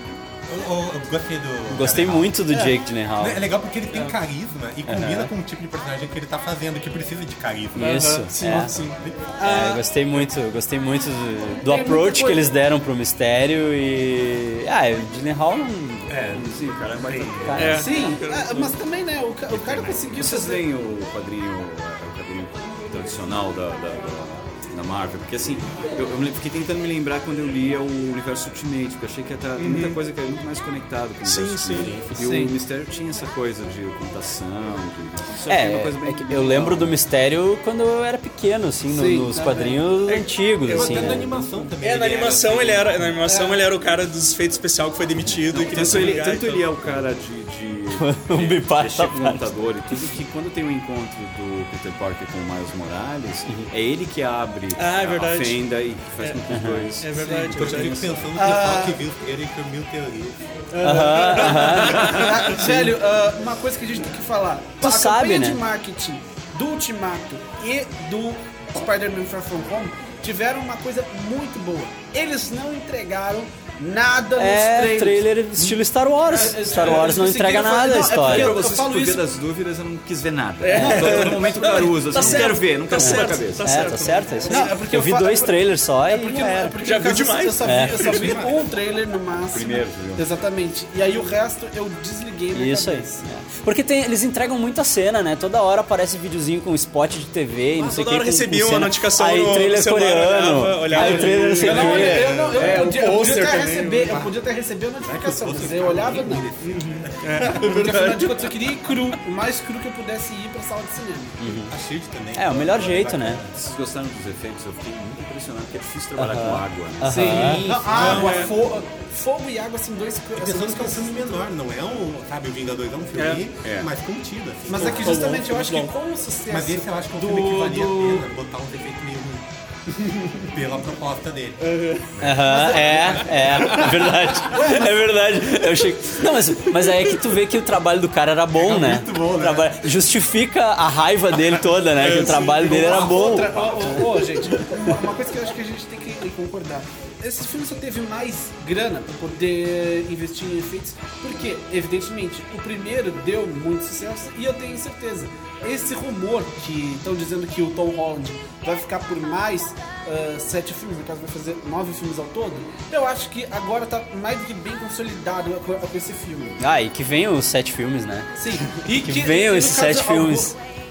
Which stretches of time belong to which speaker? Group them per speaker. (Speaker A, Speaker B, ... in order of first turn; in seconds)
Speaker A: 0.5-2.4, 3.2-9.2, 16.1-17.8, 31.8-32.1, 40.6-43.0, 57.5-60.5, 88.0-88.7, 102.2-102.8, 104.1-104.3, 105.0-107.5, 111.5-113.6, 117.2-118.7, 120.3-125.2, 126.5-129.4, 130.5-133.7, 138.5-139.9
Speaker B: 1.7-3.4, 4.9-5.3, 7.7-8.7, 9.4-16.1, 17.4-17.8, 35.5-41.3, 47.9-49.5, 56.5-56.9, 60.8-62.9, 64.8-65.6, 74.4-78.6, 80.7-81.3, 83.0-86.8, 87.6-88.0, 92.5-102.3, 111.4-111.7, 112.3-113.4, 116.2-117.7, 132.2-143.9, 166.6-170.6
Speaker C: 2.5-2.7, 9.4-9.8, 11.6-12.4, 17.7-20.6, 32.2-32.5, 38.9-39.8, 43.2-43.6, 58.4-59.0, 60.9-75.3, 76.2-79.2, 80.8-82.5, 84.5-93.2, 100.9-106.5, 107.6-111.4, 117.1-121.4, 124.7-128.2, 132.4-133.2, 134.4-135.0, 142.6-166.6, 168.3-170.5
Speaker D: 7.8-9.0, 17.6-18.8, 29.6-30.0, 31.2-32.0, 40.1-41.0, 41.8-46.7, 54.8-55.6, 57.0-58.1, 60.7-62.6, 80.6-84.8, 86.8-88.4, 97.8-104.3, 107.2-108.5, 117.9-118.5, 123.2-123.4, 124.8-125.9, 131.6-132.1, 132.9-134.1, 142.0-143.0
Speaker E: 16.3-17.9, 19.5-37.0, 45.4-58.2, 77.9-83.9, 89.5-90.2, 113.5-117.4, 123.6-123.9